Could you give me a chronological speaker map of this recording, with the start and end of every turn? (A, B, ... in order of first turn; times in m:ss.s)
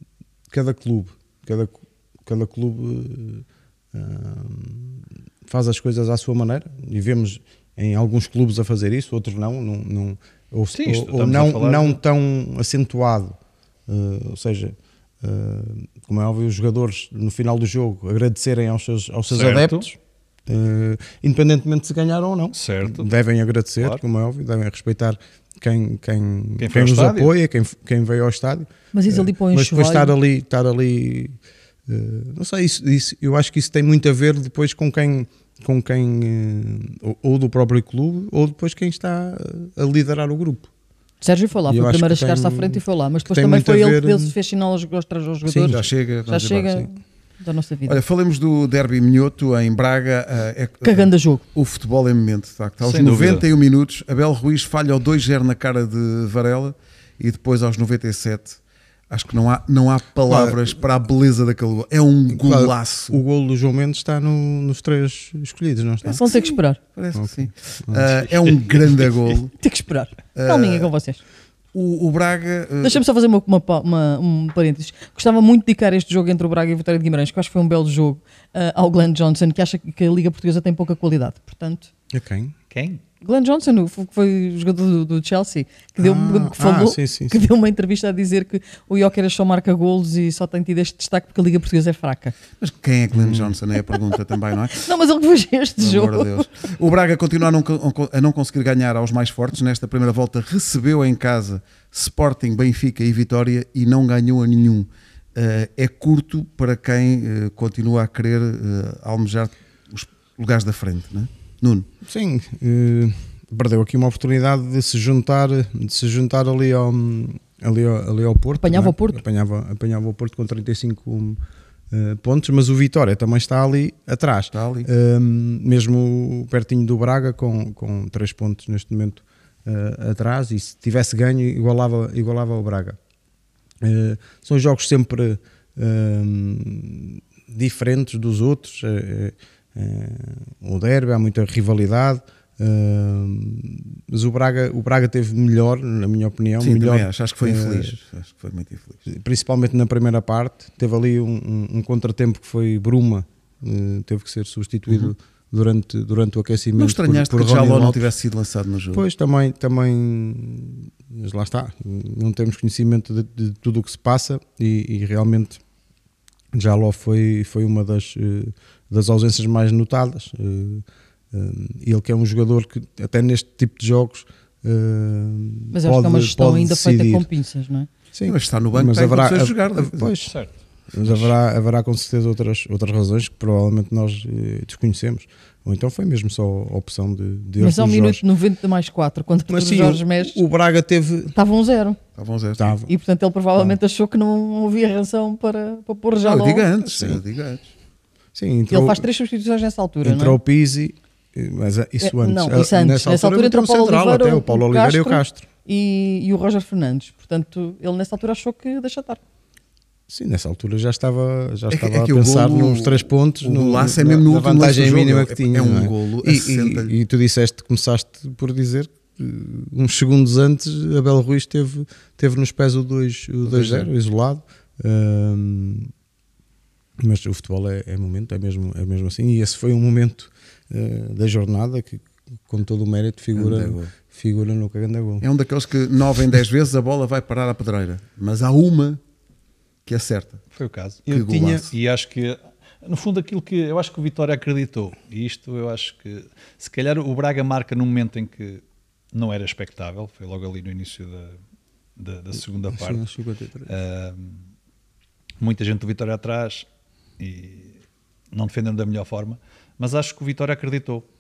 0:00.5-0:20.0 A
0:10.7-0:12.0 B
0:19.3-0:19.9 B
0:20.5-0:31.4 A
0:22.6-0:23.1 B
0:26.6-0:27.3 B
0:28.9-0:30.1 C
0:31.9-0:40.7 A
0:41.2-0:48.0 C
0:41.7-0:44.4 A
0:45.5-0:45.9 A
0:45.6-0:46.8 D
0:47.9-0:58.6 D
0:50.8-0:51.4 C
0:52.8-0:53.5 B
0:59.1-1:03.2 D
1:00.3-1:00.8 A
1:02.3-1:06.2 A
1:06.1-1:09.5 D
1:06.2-1:06.8 C
1:07.2-1:08.2 A
1:09.6-1:11.2 C
1:10.4-1:10.9 D
1:11.7-1:13.0 D
1:12.8-1:21.9 C
1:22.1-1:22.5 A
1:22.7-1:23.0 B
1:23.2-1:32.3 C
1:26.0-1:27.4 A
1:32.6-1:34.9 D
1:33.2-1:33.5 A
1:34.8-1:36.4 C
1:35.8-1:51.9 D
1:52.0-2:01.4 A
1:58.6-1:59.2 C
2:01.9-2:13.0 A
2:04.5-2:04.9 D
2:13.8-2:28.0 A
2:26.6-2:29.1 D
2:29.1-2:38.1 A
2:36.8-2:39.0 D
2:38.9-2:45.6 A
2:46.5-2:57.3 A
2:55.7-2:57.9 C
2:58.1-3:00.3 A
2:58.3-3:00.2 D
3:00.2-3:01.3 B
3:00.9-3:08.2 A
3:07.6-3:10.4 C
3:09.5-3:11.3 A
3:11.3-3:12.0 C
3:12.2-3:12.8 D
3:12.6-3:12.9 A
3:12.9-3:16.7 C
3:16.2-3:17.7 D
3:16.8-3:17.2 A
3:18.4-3:19.0 A
3:18.7-3:20.4 C
3:20.0-3:25.5 A
3:22.0-3:29.2 C
3:30.1-3:45.9 A
3:31.7-3:36.9 D
3:43.4-3:43.9 D
3:47.0-3:55.2 A
3:53.4-3:53.9 D
3:55.2-3:59.0 D
3:59.9-4:00.4 D
4:00.5-4:01.0 B
4:01.1-4:01.7 A
4:01.1-4:01.7 D
4:01.7-4:11.4 B
4:12.0-4:13.1 B
4:12.7-4:13.8 A
4:13.7-4:14.4 B
4:15.4-4:16.7 B
4:17.2-4:17.8 B
4:18.3-4:21.0 B